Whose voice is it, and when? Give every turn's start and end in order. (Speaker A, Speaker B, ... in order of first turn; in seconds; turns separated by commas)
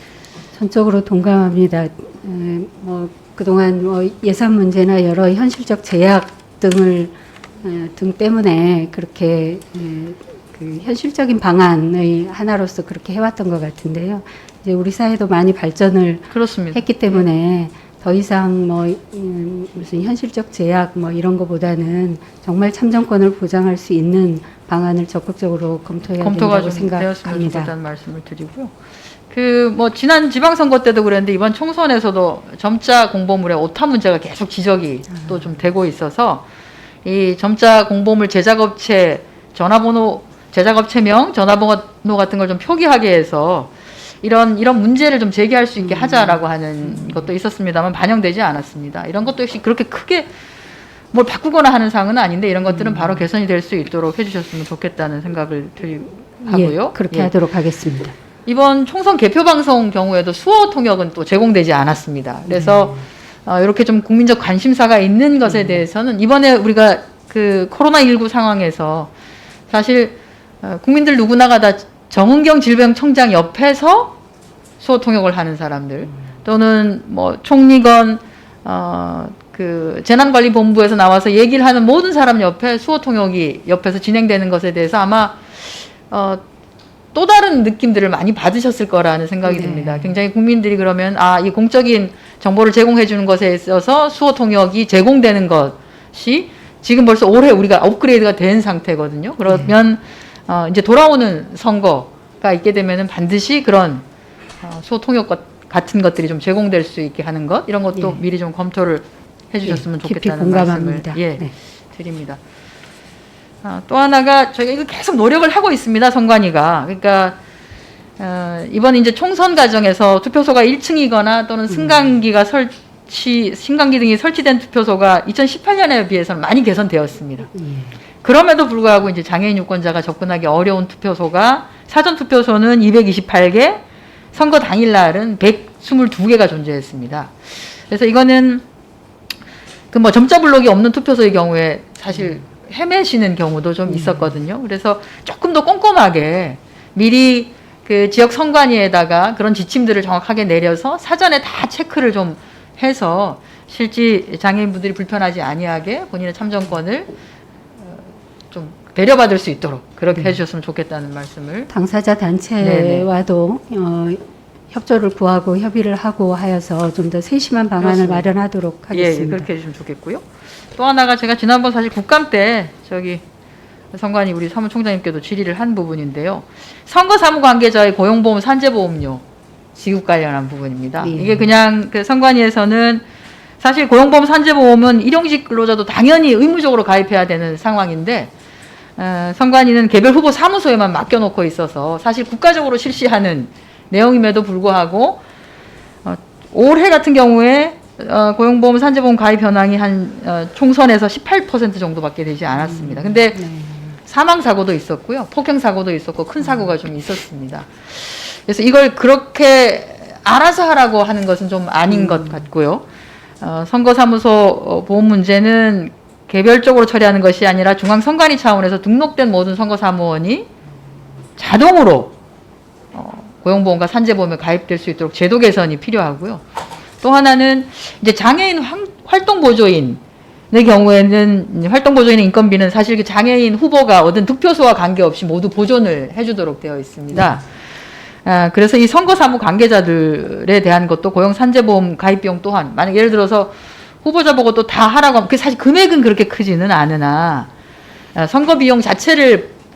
Speaker A: 0.5-27.7, Speaker B: 16.3-17.2, Speaker B: 26.2-28.7, Speaker B: 29.3-36.4, Speaker B: 37.0-50.3, Speaker A: 45.8-47.3, Speaker B: 51.1-57.3, Speaker A: 52.7-53.2, Speaker A: 56.5-58.1, Speaker B: 58.5-69.1, Speaker A: 62.5-63.0, Speaker B: 69.7-74.2, Speaker B: 74.8-86.4, Speaker B: 87.1-104.0, Speaker A: 89.4-90.2, Speaker A: 99.5-99.7, Speaker B: 104.6-112.4, Speaker A: 107.9-108.2, Speaker A: 109.6-111.5, Speaker B: 113.6-117.4, Speaker B: 118.2-127.5, Speaker A: 127.5-127.9, Speaker B: 128.2-133.8, Speaker B: 134.3-138.6, Speaker B: 139.9-157.1, Speaker A: 143.9-144.3, Speaker B: 157.8-161.7, Speaker A: 161.7-164.2, Speaker B: 162.6-163.1, Speaker A: 164.7-169.5, Speaker B: 167.8-168.3, Speaker B: 168.9-170.2, Speaker B: 170.8-173.2, Speaker B: 173.9-179.2, Speaker B: 179.7-183.0, Speaker A: 181.0-181.5, Speaker B: 183.6-188.3, Speaker B: 189.0-195.2, Speaker B: 196.0-203.4, Speaker A: 202.6-203.9, Speaker B: 204.0-212.8, Speaker A: 211.9-212.4, Speaker B: 213.4-220.5, Speaker B: 221.4-222.1, Speaker B: 222.9-226.4, Speaker B: 227.0-237.4, Speaker B: 238.2-247.5, Speaker B: 248.1-249.5